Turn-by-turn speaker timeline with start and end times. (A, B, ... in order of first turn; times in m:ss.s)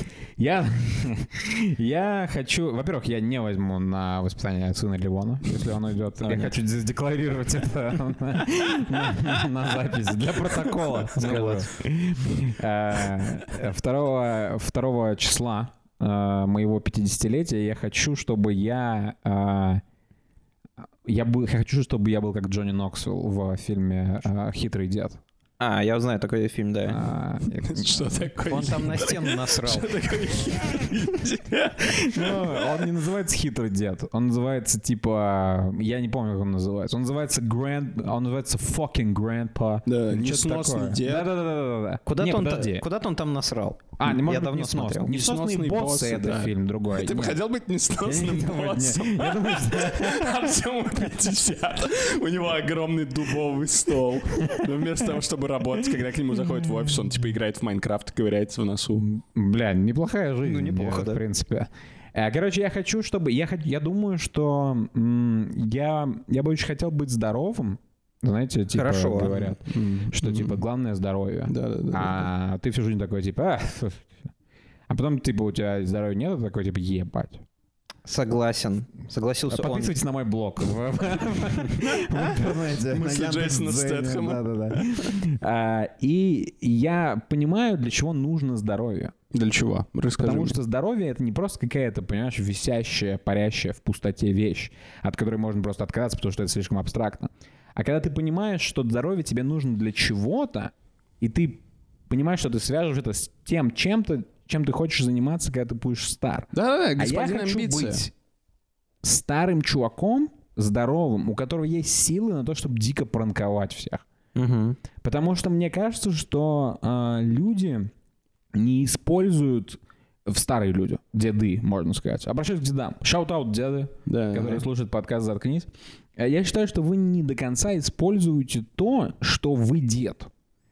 0:00.4-0:19.8 A
0:11.2-0:11.7 B
0:21.0-0:25.2 A
0:25.6-0:27.0 B
0:26.9-0:28.6 A
0:27.6-0:32.7 C
0:28.5-0:29.9 B
0:31.8-0:42.8 A
0:39.9-0:41.3 C
0:42.1-0:45.1 B
0:44.0-0:47.4 A
0:45.1-0:59.0 C
0:48.0-0:50.3 A
0:59.0-1:14.2 A
1:00.4-1:01.2 B
1:08.8-1:09.5 B
1:09.6-1:10.6 C
1:11.5-1:12.3 C
1:14.9-1:17.4 A
1:18.1-1:20.0 B
1:19.5-1:29.1 A
1:22.9-1:25.1 C
1:29.3-1:30.6 C
1:30.2-1:48.1 A
1:46.5-1:48.0 C
1:49.0-1:54.0 A
1:54.4-1:54.8 B
1:55.0-1:57.9 A
1:58.5-2:10.3 A
2:04.1-2:04.6 C